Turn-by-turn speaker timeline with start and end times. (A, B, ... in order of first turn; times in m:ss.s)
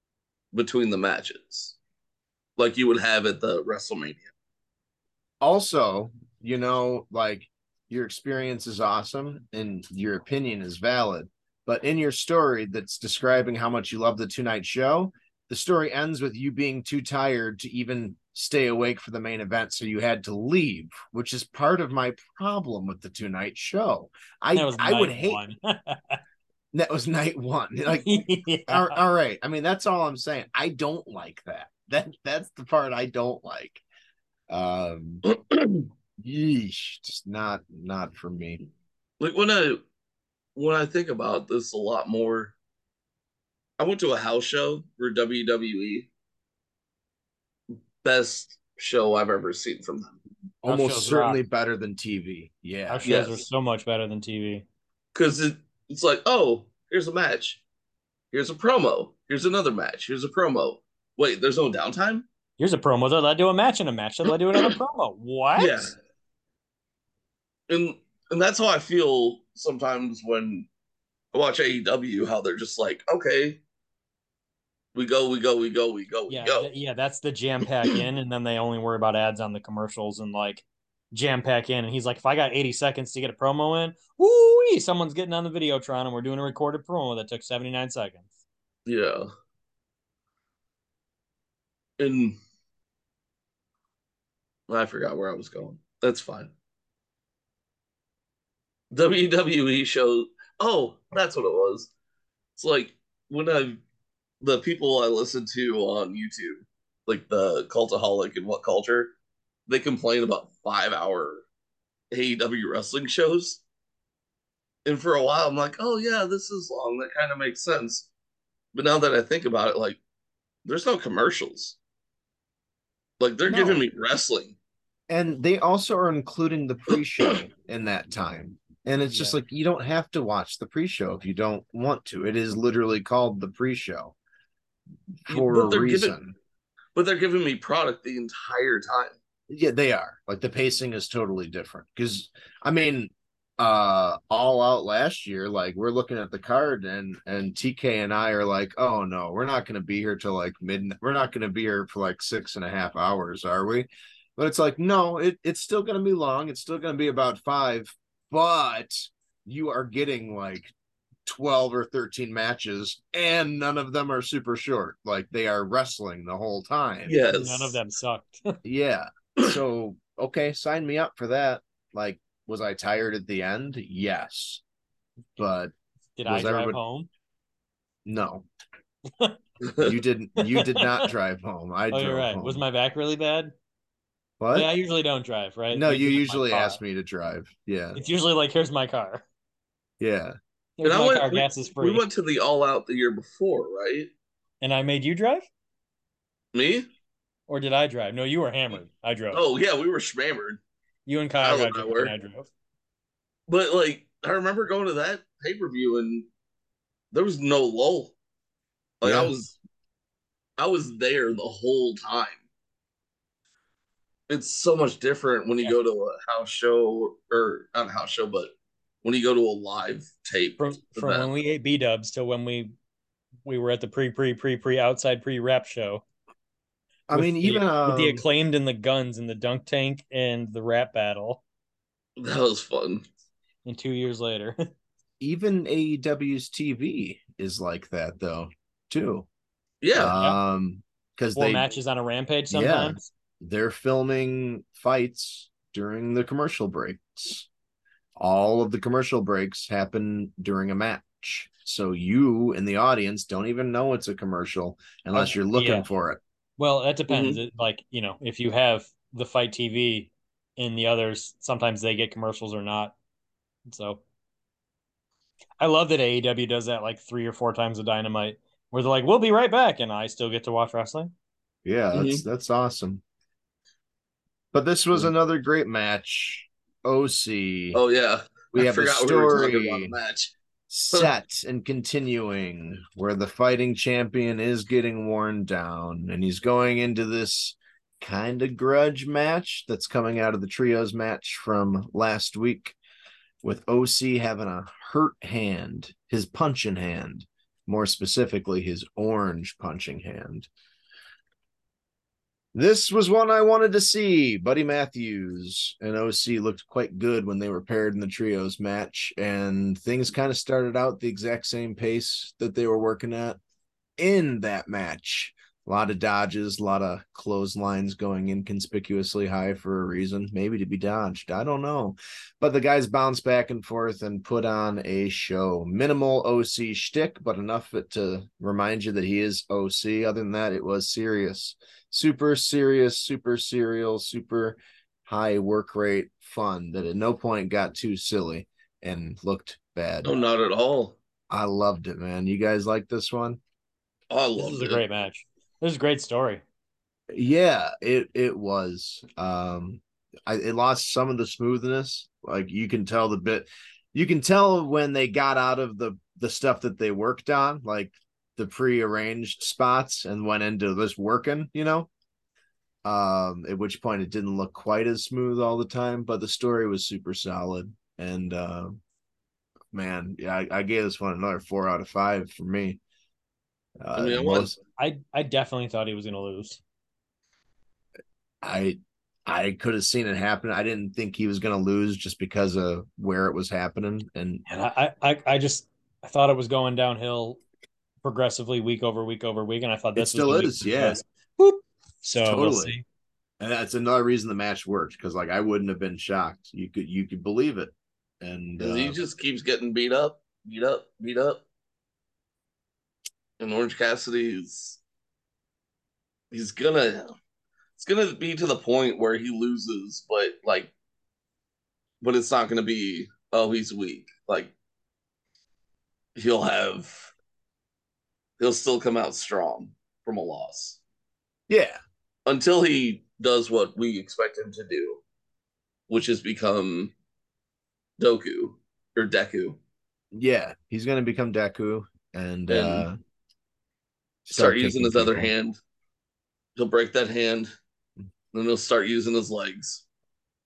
0:00.5-0:01.8 A
0:02.6-0:04.3 A
0:05.4-0:25.4 B
0:24.5-0:26.2 C
0:26.7-0:33.8 B
0:27.9-0:29.0 C
0:34.5-0:35.2 B
0:35.3-0:35.9 A
0:36.2-0:38.6 B
0:39.2-0:39.8 A
0:40.6-0:42.5 A
0:43.8-0:46.1 A
0:48.0-0:50.2 A
0:50.6-0:53.2 B
0:50.7-0:51.4 C
0:52.9-0:54.6 C
0:53.0-0:53.4 A
0:55.1-0:57.6 A
0:58.3-1:02.3 A
1:02.6-1:05.9 C
1:05.6-1:05.9 A
1:07.7-1:10.7 A
1:11.3-1:13.6 A
1:15.0-1:16.7 A
1:16.3-1:28.3 C
1:28.9-1:29.3 A
1:32.0-1:32.4 A
1:34.7-1:36.5 A
1:38.9-1:41.9 A
1:42.6-1:43.8 A
1:44.4-1:49.1 A
1:49.7-1:51.5 A
1:52.1-1:53.6 A
1:54.8-1:58.1 A
1:58.7-2:00.0 A
2:00.6-2:01.8 A
2:03.2-2:04.6 A
2:03.5-2:03.9 B
2:05.1-2:14.1 B
2:09.1-2:09.4 C
2:15.3-2:16.4 B
2:15.3-2:16.2 A
2:17.0-2:19.2 A
2:19.5-2:40.7 B
2:41.3-2:47.1 B
2:47.0-2:47.8 A
2:47.3-2:48.6 C
2:48.6-2:54.6 B
2:55.4-2:55.7 B
2:56.2-2:57.1 C
2:56.3-2:56.8 B
2:58.1-2:58.5 B
2:59.6-2:59.9 A
2:59.8-3:02.6 B
3:00.4-3:01.1 C
3:01.9-3:03.5 C
3:04.4-3:04.7 B
3:04.5-3:06.8 C
3:05.7-3:08.0 B
3:08.0-3:09.2 C
3:10.0-3:10.4 B
3:10.8-3:12.0 C
3:10.8-3:14.1 A
3:14.6-3:15.5 C
3:16.5-3:16.9 A
3:17.5-3:19.4 C
3:19.3-3:20.6 A
3:21.1-3:22.5 C
3:21.4-3:22.1 A
3:23.5-3:26.3 A
3:27.1-3:28.1 A
3:29.0-3:29.6 A
3:29.0-3:29.3 B
3:30.6-3:32.4 A
3:34.3-3:38.5 A
3:39.0-3:41.3 A
3:40.6-3:42.7 C
3:43.5-3:46.0 C
3:47.1-3:48.2 B
3:47.1-3:51.4 C
3:52.2-3:53.0 A
3:53.6-3:54.7 C
3:55.2-3:59.3 B
3:59.8-4:00.2 A
3:59.9-4:01.7 B
4:01.4-4:03.1 C
4:02.5-4:07.5 B
4:08.2-4:16.2 B
4:15.1-4:15.9 C
4:16.6-4:23.0 C
4:17.1-4:17.4 A
4:23.7-4:24.0 C
4:25.6-4:31.1 C
4:31.6-4:33.0 B
4:31.9-4:32.2 A
4:34.5-4:37.8 B
4:37.7-4:40.3 A
4:38.5-4:39.9 B
4:40.7-4:52.8 B
4:53.4-5:00.5 B
5:02.5-5:13.4 B
5:14.0-5:40.1 B
5:40.0-5:41.0 A
5:41.3-5:43.4 B
5:44.1-5:44.8 A
5:44.4-5:46.4 C
5:47.1-6:01.9 B
6:02.8-6:08.8 B
6:09.7-6:12.8 B
6:13.8-6:14.6 B
6:14.0-6:14.5 A
6:14.8-6:16.6 C
6:18.4-6:24.4 B
6:24.5-6:27.4 C
6:28.0-6:32.8 C
6:30.0-6:31.0 B
6:32.2-6:32.7 B
6:33.4-6:39.0 B
6:38.6-6:41.4 A
6:43.4-6:44.8 A
6:46.3-6:47.1 A
6:47.8-6:50.7 A
6:52.0-6:54.5 A
6:56.2-6:57.1 A
6:58.4-7:00.8 A
7:01.5-7:01.8 B
7:02.3-7:05.0 A
7:05.9-7:06.9 A
7:08.0-7:09.6 A
7:10.1-7:13.0 B
7:12.5-7:12.9 A
7:14.3-7:15.3 B
7:14.3-7:15.6 A
7:16.6-7:17.5 A
7:18.3-7:19.8 A